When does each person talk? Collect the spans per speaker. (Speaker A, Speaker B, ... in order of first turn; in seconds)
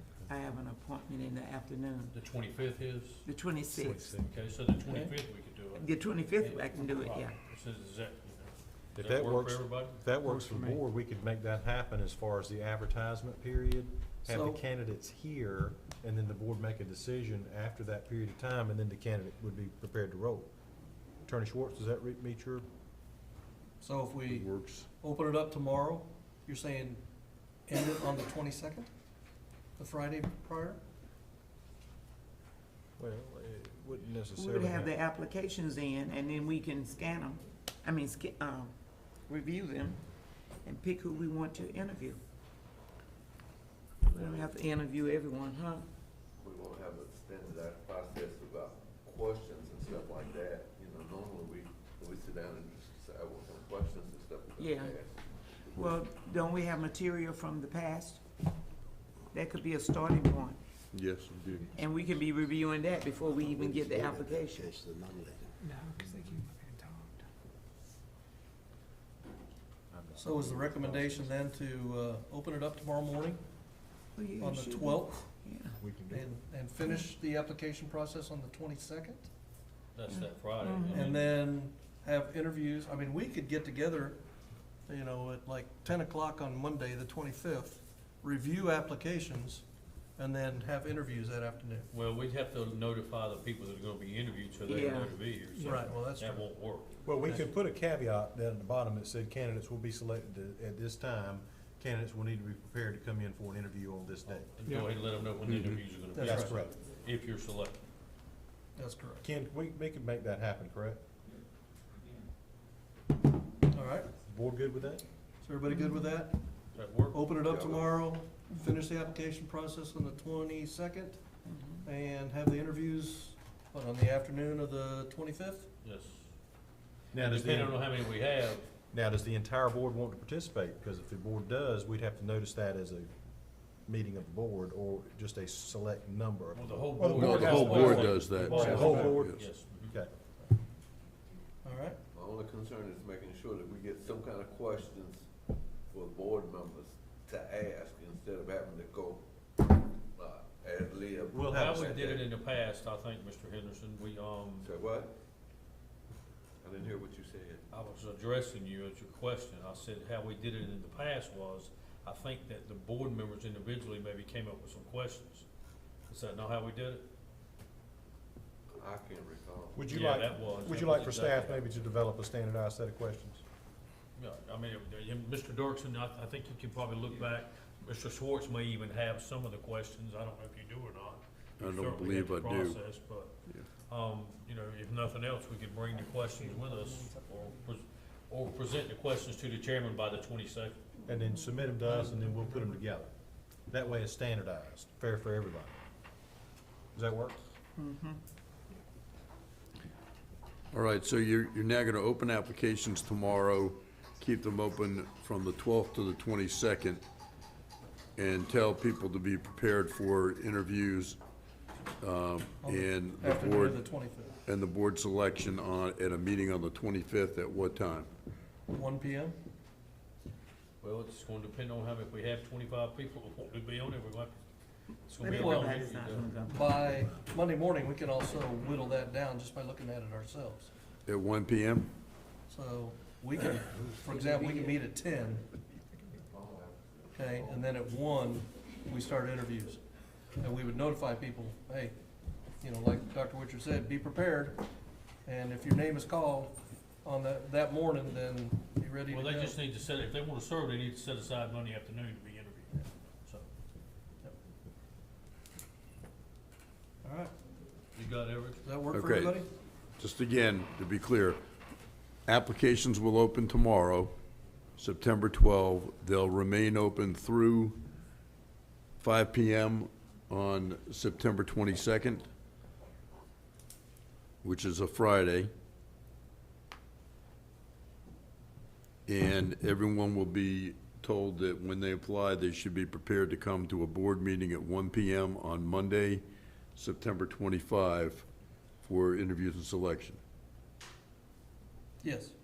Speaker A: 0.3-2.1, 3.2-4.1, 5.8-7.4, 34.4-38.7, 39.2-40.0, 40.6-42.2, 44.0-45.9, 54.6-54.9, 55.6-58.2, 59.3-60.6, 61.7-64.8, 74.2-75.8, 80.1-81.1, 94.7-95.1, 121.5-121.8, 197.8-198.2, 225.2-226.8, 234.1-234.7
Speaker B: 2.1-3.2, 4.1-10.0, 80.0-81.3, 91.9-96.9, 104.3-107.8, 116.8-117.2, 125.8-126.3, 127.2-128.7, 136.5-139.9, 151.5-154.7, 157.7-165.5, 166.1-167.1, 169.9-171.6, 174.2-190.8, 220.8-224.4, 225.1-226.4, 249.1-253.5, 258.0-258.7
Speaker C: 3.7-4.3, 9.0-20.5, 21.3-22.6, 33.0-34.9, 69.9-71.2, 75.8-76.3, 97.0-104.6, 106.2-106.7, 109.2-111.0, 114.2-115.0, 127.1-127.8, 128.9-133.1, 133.8-140.1, 151.3-151.9, 169.8-173.4, 191.1-193.1, 193.7-195.8, 196.9-197.4
Speaker D: 4.9-5.2, 14.3-14.6, 23.8-27.0, 27.7-28.9, 29.8-30.8, 70.2-73.4, 74.4-75.3, 76.1-79.3, 80.9-84.2, 84.9-89.7, 90.2-91.9, 95.6-96.5, 106.1-106.5, 108.8-109.2, 113.7-114.1, 115.4-116.4, 117.1-121.2, 121.8-125.7, 137.3-139.2, 141.7-142.0, 212.6-214.4, 218.7-219.4, 225.2-225.8, 226.5-230.7, 232.5-235.5, 237.2-239.8, 240.4-241.9, 242.6-244.7, 245.3-249.6, 257.0-257.3, 258.6-259.5, 292.0-292.4
Speaker E: 24.3-24.9, 60.9-61.7, 137.1-139.4, 181.6-182.8, 200.7-207.0, 208.2-211.2, 212.0-213.8, 214.4-218.1, 231.1-231.9, 258.9-259.4, 260.0-261.4, 262.3-264.1, 264.8-267.8, 269.0-272.2, 274.4-275.5, 279.1-286.2, 286.8-288.3, 288.8-290.2
Speaker F: 44.1-44.5, 46.4-55.2, 117.4-118.0, 142.1-145.3, 145.9-149.2, 150.2-152.3, 154.6-155.2, 156.6-157.7, 168.7-169.9, 236.1-238.0
Speaker G: 64.7-67.1